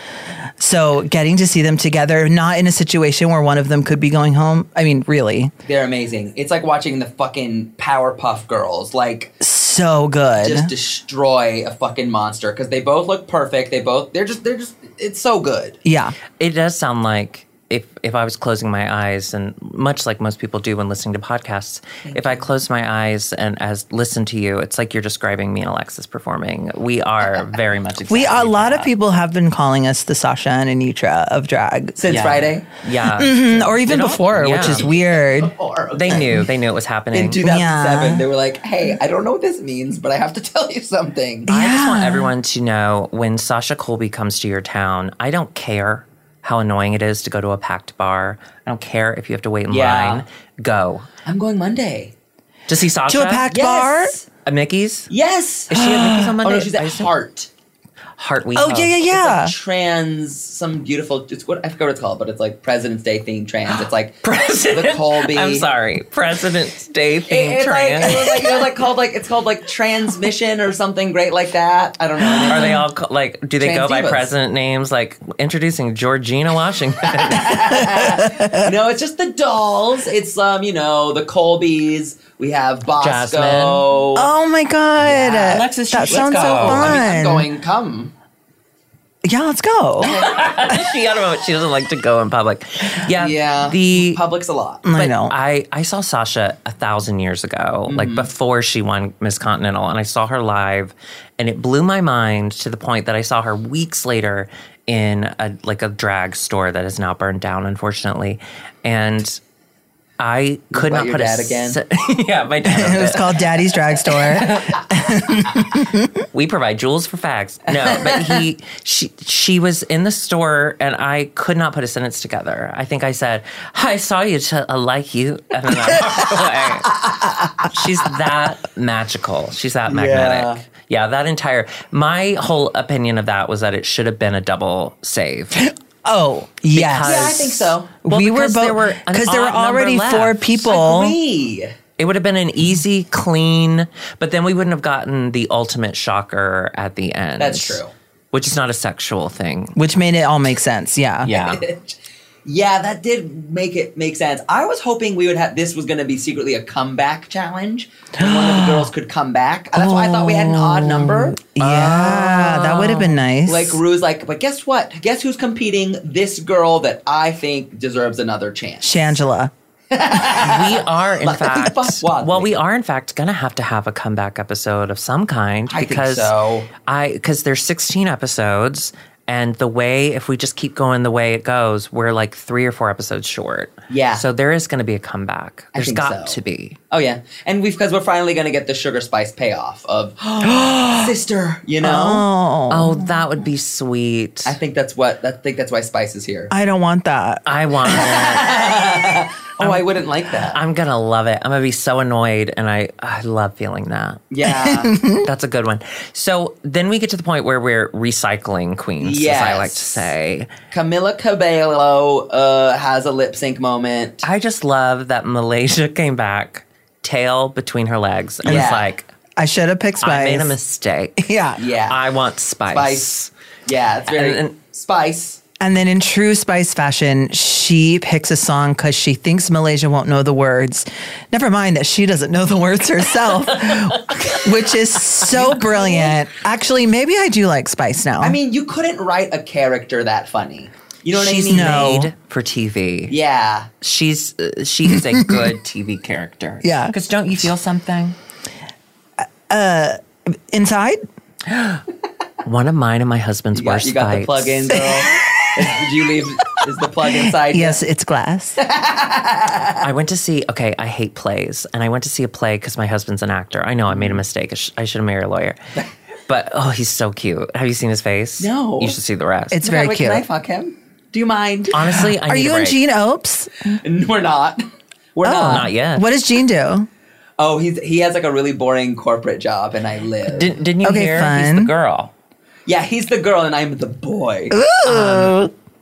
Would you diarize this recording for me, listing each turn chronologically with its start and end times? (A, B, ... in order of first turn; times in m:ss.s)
0:00.6-0:05.5 A
0:05.6-0:09.4 B
0:09.4-0:10.7 A
0:10.4-0:15.8 B
0:15.8-0:16.2 A
0:16.4-0:28.9 C
0:22.0-0:22.5 B
0:28.1-0:32.0 A
0:32.0-0:32.7 B
0:32.1-0:34.9 C
0:33.1-0:35.5 A
0:34.4-0:36.5 B
0:35.9-0:37.4 C
0:37.1-0:41.5 B
0:37.4-0:38.3 A
0:41.5-0:42.3 A
0:41.5-0:51.1 C
0:49.7-0:50.2 B
0:51.2-0:52.1 B
0:52.7-0:53.4 C
0:53.1-0:54.1 A
0:53.5-0:54.3 B
0:54.4-0:55.1 C
0:55.1-0:57.5 B
0:55.7-0:57.1 C
0:55.9-0:56.2 A
0:58.2-0:59.0 C
0:58.6-0:59.5 A
0:59.1-1:04.2 B
1:04.2-1:08.7 C
1:04.7-1:05.7 B
1:07.3-1:12.8 B
1:12.4-1:12.8 A
1:12.5-1:18.0 C
1:13.6-1:14.3 B
1:17.1-1:24.3 B
1:17.9-1:18.6 A
1:23.0-1:23.8 C
1:24.2-1:27.5 A
1:25.0-1:28.1 B
1:25.2-1:27.0 C
1:29.2-1:30.2 A
1:30.0-1:30.3 B
1:30.1-1:34.2 C
1:33.1-1:34.8 B
1:34.8-1:35.4 A
1:35.0-1:49.4 C
1:37.9-1:38.3 B
1:50.2-1:53.4 C
1:50.7-1:51.8 B
1:52.6-1:56.1 A
1:54.0-1:54.8 C
1:56.3-2:07.0 C
1:57.8-1:58.4 B
2:07.2-2:07.5 B
2:07.6-2:15.6 C
2:09.9-2:10.6 B
2:15.6-2:21.1 A
2:16.7-2:20.6 C
2:17.0-2:18.0 B
2:20.6-2:21.7 B
2:22.0-2:27.8 C
2:27.4-2:27.9 B
2:28.3-2:29.8 C
2:29.8-2:31.3 A
2:31.2-2:31.6 C
2:31.3-2:42.6 B
2:38.2-2:38.9 A
2:39.7-2:43.8 A
2:41.6-2:43.2 C
2:43.4-2:49.2 B
2:48.8-2:49.5 A
2:49.9-2:52.5 B
2:50.3-2:56.3 C
2:55.7-2:56.7 B
2:56.8-3:06.8 C
3:03.9-3:04.2 B
3:05.7-3:06.4 B
3:06.9-3:12.3 B
3:10.4-3:11.1 A
3:11.8-3:13.2 A
3:12.7-3:14.6 C
3:14.4-3:16.5 B
3:16.5-3:17.9 A
3:17.4-3:18.4 C
3:17.9-3:20.6 B
3:20.5-3:24.2 C
3:24.3-3:25.0 B
3:24.4-3:25.3 A
3:25.2-3:30.5 C
3:29.0-3:30.0 B
3:30.7-3:34.2 B
3:34.2-3:39.1 C
3:38.4-3:38.9 B
3:39.4-3:40.6 A
3:40.0-3:41.2 C
3:41.2-3:41.6 A
3:41.6-3:42.0 B
3:41.9-3:43.3 C
3:42.7-3:45.4 B
3:44.1-3:44.5 C
3:45.6-3:58.4 A
3:55.3-3:56.2 B
3:58.2-4:02.0 B
4:01.1-4:03.1 C
4:01.5-4:02.1 A
4:03.1-4:03.7 B
4:03.8-4:08.2 C
4:04.9-4:05.4 A
4:06.6-4:06.9 A
4:09.5-4:11.0 A
4:11.5-4:11.8 C
4:12.4-4:14.8 C
4:13.5-4:17.8 B
4:17.1-4:18.6 A
4:18.6-4:19.8 B
4:19.8-4:25.6 C
4:23.9-4:24.2 B
4:26.3-4:29.6 C
4:28.4-4:29.0 B
4:29.5-4:30.2 A
4:29.6-4:32.0 B
4:31.7-4:32.8 C
4:31.9-4:33.8 A
4:33.8-4:35.7 B
4:35.2-4:36.9 A
4:35.4-4:36.0 C
4:37.4-4:40.6 B
4:40.3-4:42.1 C
4:40.8-4:41.7 A
4:42.7-4:44.6 B
4:44.5-4:45.5 A
4:44.8-4:45.3 C